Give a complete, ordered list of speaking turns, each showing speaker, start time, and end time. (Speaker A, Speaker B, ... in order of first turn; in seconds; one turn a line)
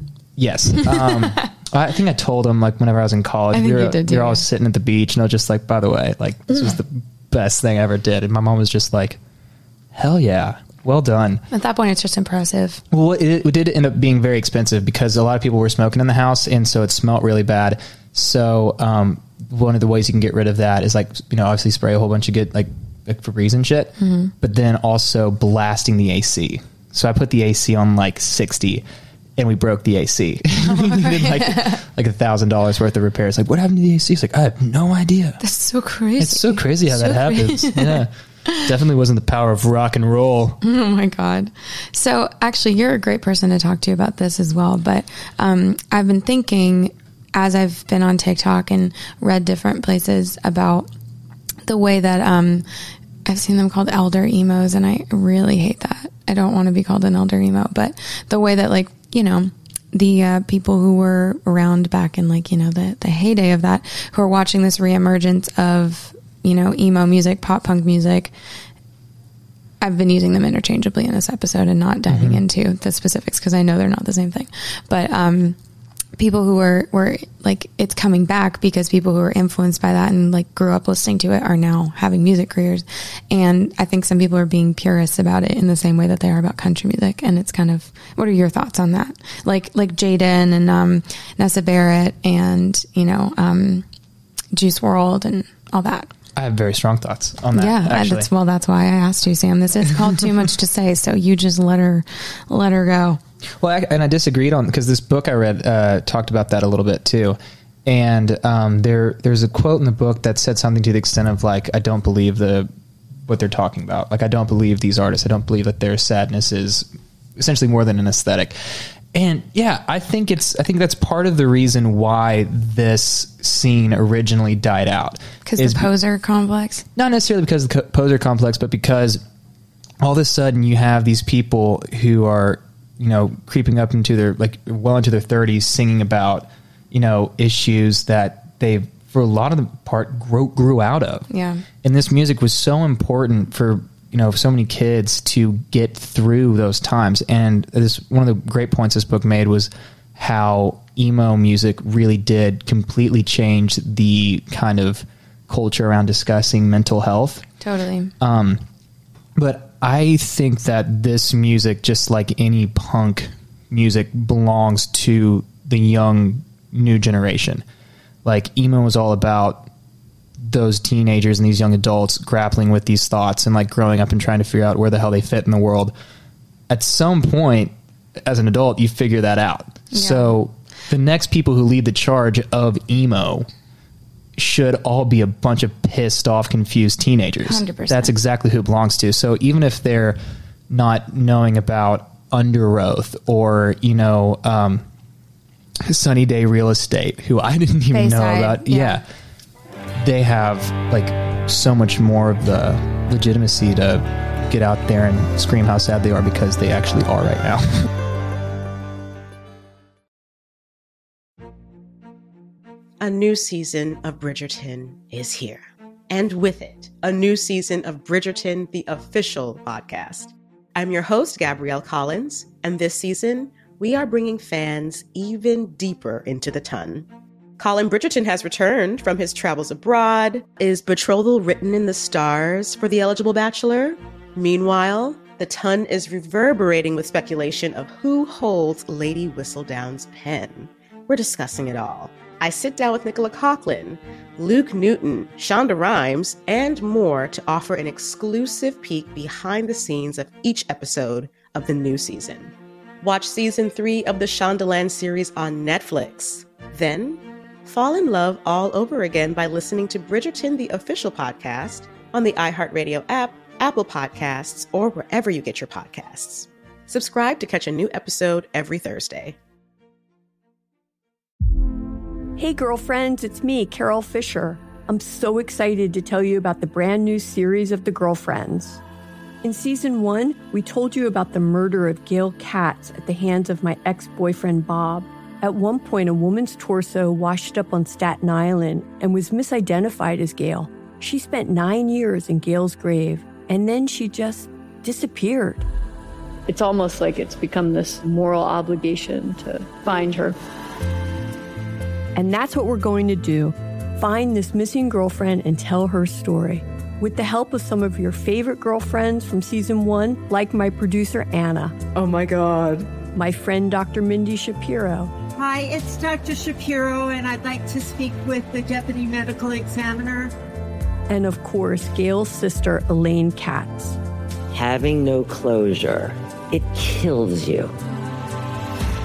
Speaker A: 0.4-9.2
Speaker B: 3.5-4.4
Speaker A: 9.9-11.4
Speaker B: 11.5-12.8
Speaker A: 12.9-28.8
Speaker B: 24.0-24.3
Speaker A: 29.4-35.4
Speaker B: 30.6-31.8
Speaker B: 35.4-38.7
Speaker A: 36.2-40.6
Speaker B: 40.6-50.9
Speaker B: 51.6-52.6
Speaker B: 53.2-68.3
Speaker B: 69.8-75.5
Speaker A: 72.1-72.4
Speaker B: 76.2-93.8
Speaker B: 94.5-96.1
Speaker A: 96.3-98.3
Speaker B: 97.5-103.2
Speaker A: 103.6-112.7
Speaker A: 113.3-118.5
Speaker A: 119.1-125.9
Speaker B: 125.4-126.8
Speaker A: 127.0-129.2
Speaker A: 130.0-141.3
Speaker B: 141.3-141.6
Speaker A: 141.8-157.4
Speaker B: 157.6-158.1
Speaker A: 158.2-158.6
Speaker A: 159.3-167.6
Speaker A: 168.2-169.7
Speaker A: 170.4-175.9
Speaker A: 176.7-183.5
Speaker B: 179.9-180.4
Speaker A: 184.4-190.2
Speaker B: 187.4-188.1
Speaker A: 190.7-194.8
Speaker A: 195.9-199.0
Speaker B: 197.9-199.0
Speaker A: 200.0-207.9
Speaker C: 213.0-269.4
Speaker D: 272.4-278.8
Speaker D: 279.4-295.6
Speaker E: 296.5-300.4
Speaker D: 302.1-311.8
Speaker F: 311.9-312.9
Speaker D: 313.1-315.1
Speaker F: 315.3-320.3
Speaker D: 321.1-324.0
Speaker G: 324.5-327.7